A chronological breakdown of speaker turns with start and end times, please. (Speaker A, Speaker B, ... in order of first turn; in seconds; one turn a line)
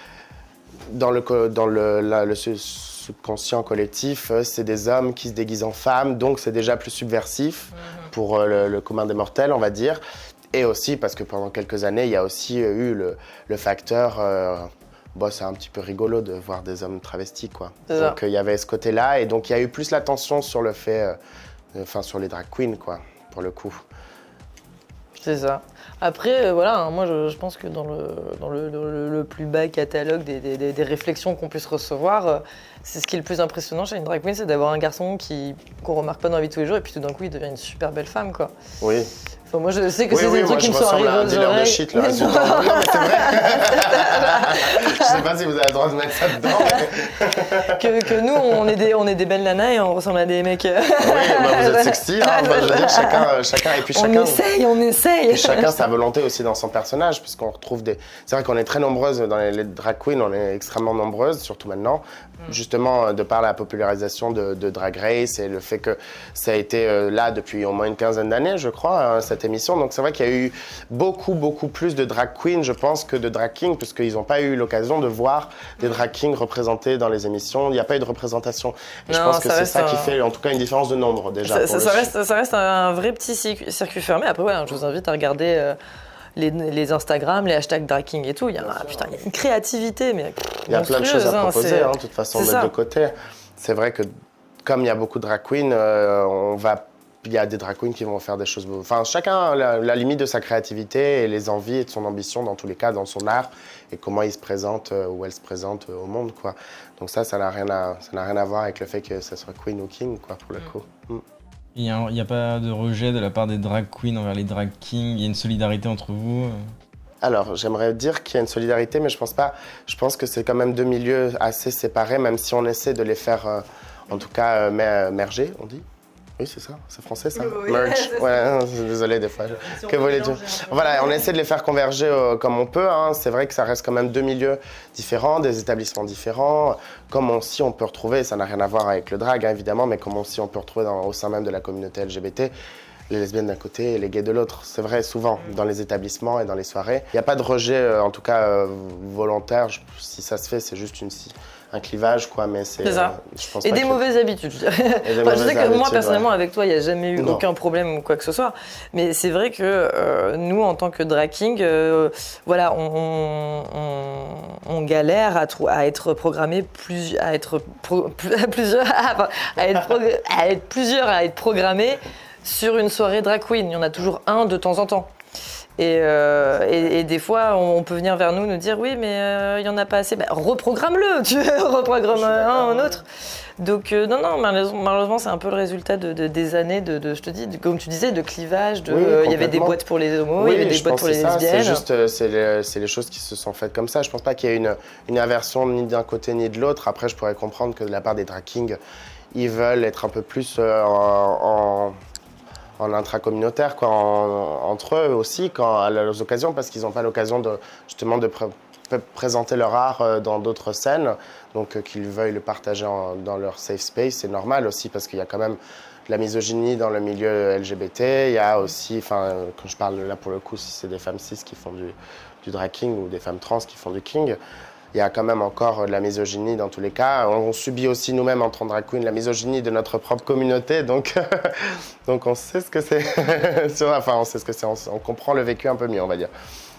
Speaker A: 0.9-10.0
Speaker A: 10.5-21.2
Speaker B: 17.9-18.2
Speaker A: 21.7-23.8
Speaker B: 25.2-38.5
Speaker A: 38.8-39.1
Speaker B: 39.5-45.2
Speaker A: 40.1-48.8
Speaker B: 46.4-46.9
Speaker B: 47.5-55.7
Speaker A: 51.0-54.4
Speaker A: 55.3-82.1
Speaker B: 79.1-80.2
Speaker B: 81.5-85.8
Speaker B: 86.4-92.7
Speaker A: 88.6-89.2
Speaker A: 90.7-94.1
Speaker A: 94.6-111.2
Speaker C: 111.8-116.7
Speaker A: 117.2-125.8
Speaker A: 126.4-142.5
Speaker B: 127.7-128.3
Speaker B: 130.3-130.9
Speaker A: 143.1-154.0
Speaker B: 152.8-175.1
Speaker A: 155.0-156.3
Speaker A: 157.2-157.4
Speaker B: 175.8-183.1
Speaker A: 182.1-183.0
Speaker B: 183.6-191.8
Speaker A: 188.9-189.8
Speaker A: 190.4-198.8
Speaker A: 199.3-202.0
Speaker A: 202.8-224.4
Speaker A: 224.9-236.3